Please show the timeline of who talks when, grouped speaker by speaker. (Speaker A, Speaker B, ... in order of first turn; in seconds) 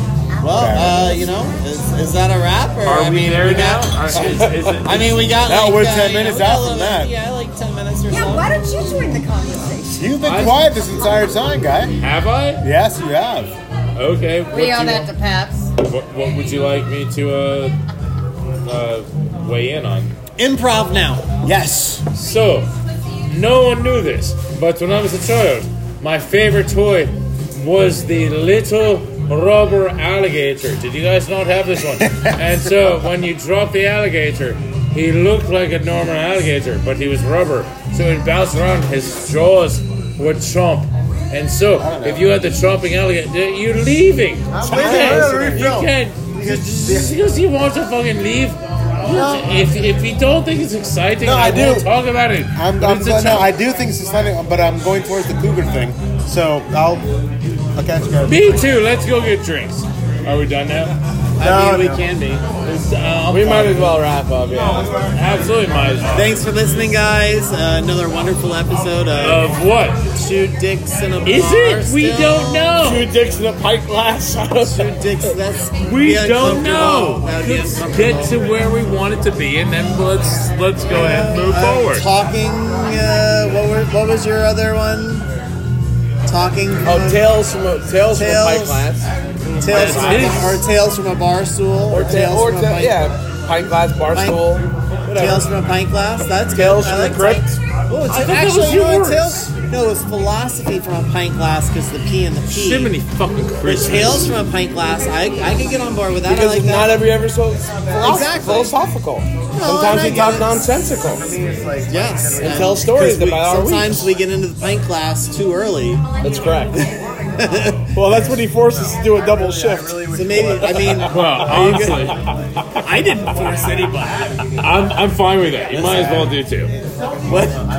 Speaker A: 0.3-0.9, 8.1-10.2, 14.5-15.7
Speaker B: 0.4-8.5, 20.4-21.3, 61.4-62.5, 66.1-69.5, 70.1-72.7, 74.6-78.4, 80.9-85.3, 86.2-87.3, 88.1-88.8, 89.6-93.0, 94.1-94.4, 95.1-102.9, 103.6-107.0, 108.0-108.7, 109.5-110.7, 111.9-116.0, 116.8-117.9, 120.1-122.1, 122.9-123.9, 125.7-126.3, 127.3-127.6
Speaker C: 0.5-1.2, 5.4-7.1, 10.0-11.9, 12.6-13.5, 21.4-22.0, 32.0-32.5, 41.8-42.3, 44.5-47.1, 49.1-49.6, 51.2-51.9, 52.5-57.0, 57.6-58.6, 61.4-62.0, 111.5-112.6, 120.2-120.9, 123.4-124.4
Speaker D: 2.8-5.2, 10.2-10.7, 12.0-12.6, 13.9-15.1, 15.8-17.7, 18.6-20.1, 22.1-22.7, 23.3-53.5, 58.2-61.0, 62.6-63.9, 65.1-66.4, 69.2-70.0, 71.2-73.1, 75.8-82.0, 89.6-90.6, 98.1-99.4, 102.5-104.3, 121.0-123.0, 124.5-126.7
Speaker E: 4.2-4.7, 44.6-45.7, 63.3-64.9, 72.8-75.3, 86.8-90.6, 91.9-95.5, 96.5-97.6, 106.2-111.3, 112.4-114.1, 116.2-116.8, 117.9-120.5